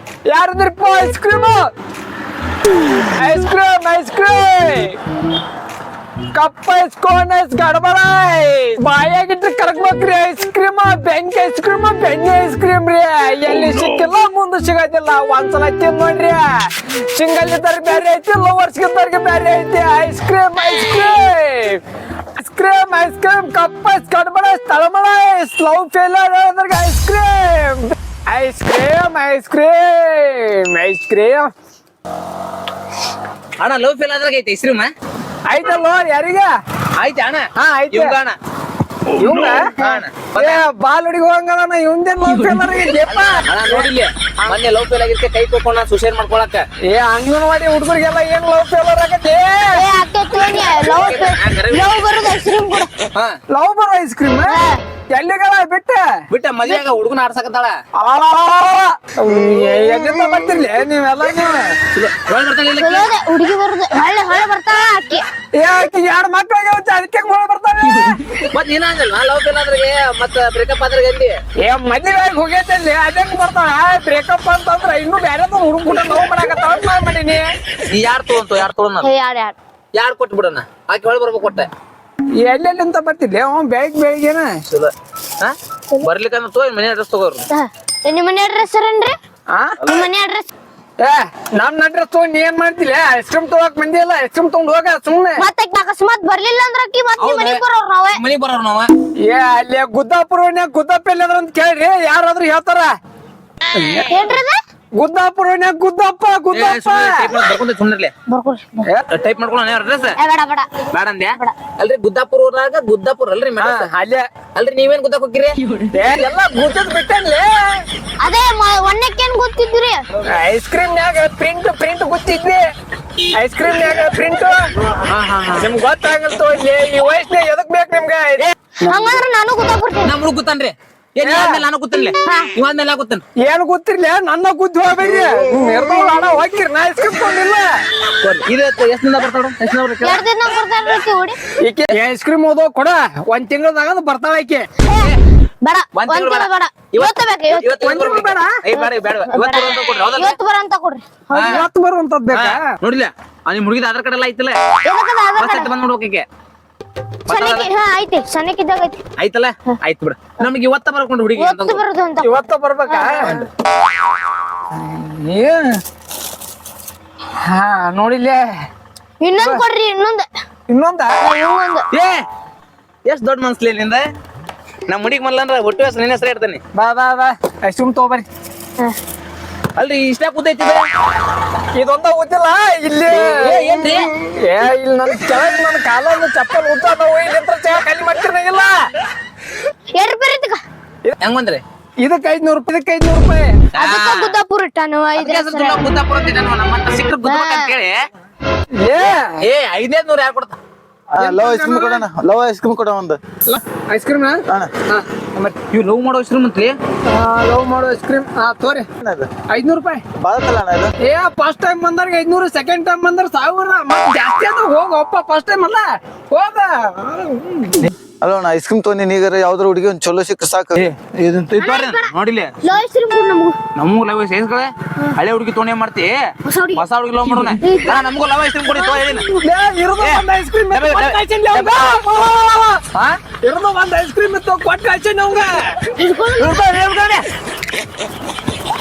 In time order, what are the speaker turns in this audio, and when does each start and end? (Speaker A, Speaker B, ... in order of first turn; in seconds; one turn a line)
Speaker A: 0.3-1.7
Speaker A: 3.1-5.0
Speaker A: 6.3-21.8
Speaker A: 22.4-31.5
Speaker B: 33.6-34.9
Speaker A: 35.5-36.5
Speaker B: 37.0-38.4
Speaker A: 37.6-38.2
Speaker A: 39.2-43.9
Speaker B: 39.8-40.6
Speaker B: 43.1-46.7
Speaker A: 46.8-49.9
Speaker C: 49.7-52.9
Speaker B: 50.7-51.9
Speaker A: 53.5-54.6
Speaker C: 54.5-54.8
Speaker A: 55.1-56.1
Speaker B: 56.3-57.8
Speaker A: 58.0-61.8
Speaker B: 61.9-63.1
Speaker C: 62.7-65.3
Speaker A: 65.5-68.4
Speaker B: 68.5-71.4
Speaker A: 71.6-77.5
Speaker B: 77.9-79.1
Speaker C: 79.0-79.6
Speaker B: 80.0-81.7
Speaker A: 82.4-84.6
Speaker B: 84.7-87.5
Speaker C: 87.5-89.2
Speaker A: 89.5-89.8
Speaker C: 89.8-90.5
Speaker A: 91.0-95.5
Speaker C: 95.4-98.2
Speaker B: 97.2-97.6
Speaker B: 98.1-98.9
Speaker A: 99.3-103.0
Speaker A: 103.8-104.1
Speaker C: 104.1-104.6
Speaker A: 105.0-107.3
Speaker B: 106.5-108.1
Speaker C: 108.3-108.9
Speaker B: 109.1-110.2
Speaker C: 110.2-111.5
Speaker B: 110.9-113.9
Speaker A: 113.6-114.3
Speaker B: 114.5-115.6
Speaker A: 115.9-117.8
Speaker C: 118.2-120.0
Speaker A: 120.2-122.7
Speaker A: 123.3-124.7
Speaker B: 125.1-125.7
Speaker A: 125.6-128.5
Speaker C: 128.8-130.1
Speaker B: 130.0-133.2
Speaker A: 131.2-131.6
Speaker C: 132.1-132.5
Speaker A: 133.4-137.8
Speaker B: 138.2-140.2
Speaker C: 140.0-141.4
Speaker A: 141.6-144.7
Speaker C: 144.9-147.8
Speaker B: 145.9-150.4
Speaker A: 147.6-148.6
Speaker C: 148.8-151.7
Speaker B: 151.3-151.7
Speaker A: 151.5-152.7
Speaker B: 152.3-154.6
Speaker C: 154.8-155.7
Speaker B: 155.4-156.3
Speaker C: 157.3-159.0
Speaker B: 157.3-157.7
Speaker B: 159.2-161.8
Speaker C: 161.4-162.3
Speaker A: 162.2-163.4
Speaker C: 162.9-163.5
Speaker A: 164.7-165.8
Speaker A: 167.4-168.7
Speaker C: 169.2-170.3
Speaker A: 170.7-171.2
Speaker C: 171.2-171.9
Speaker B: 171.9-172.3
Speaker B: 173.1-174.1
Speaker B: 174.9-176.6
Speaker A: 176.7-178.3
Speaker B: 179.8-180.9
Speaker A: 181.7-183.8
Speaker B: 183.1-184.1
Speaker A: 184.3-188.9
Speaker C: 189.9-190.6
Speaker B: 191.2-191.6
Speaker A: 192.0-193.5
Speaker B: 193.7-194.4
Speaker C: 193.8-195.9
Speaker B: 195.2-197.9
Speaker C: 197.2-197.7
Speaker A: 198.8-199.4
Speaker B: 199.4-200.6
Speaker D: 201.1-203.2
Speaker A: 201.2-202.1
Speaker A: 203.4-205.5
Speaker B: 205.7-206.8
Speaker A: 207.1-208.9
Speaker D: 209.0-209.3
Speaker A: 209.5-210.0
Speaker D: 210.2-210.9
Speaker A: 211.0-217.9
Speaker D: 218.2-220.9
Speaker B: 220.8-222.6
Speaker C: 221.6-222.1
Speaker C: 222.6-223.6
Speaker B: 223.8-226.2
Speaker C: 226.4-226.8
Speaker B: 226.8-229.3
Speaker C: 227.6-228.0
Speaker C: 228.7-229.4
Speaker A: 229.4-232.8
Speaker B: 230.0-232.0
Speaker A: 233.4-235.8
Speaker C: 235.9-236.7
Speaker B: 236.4-237.2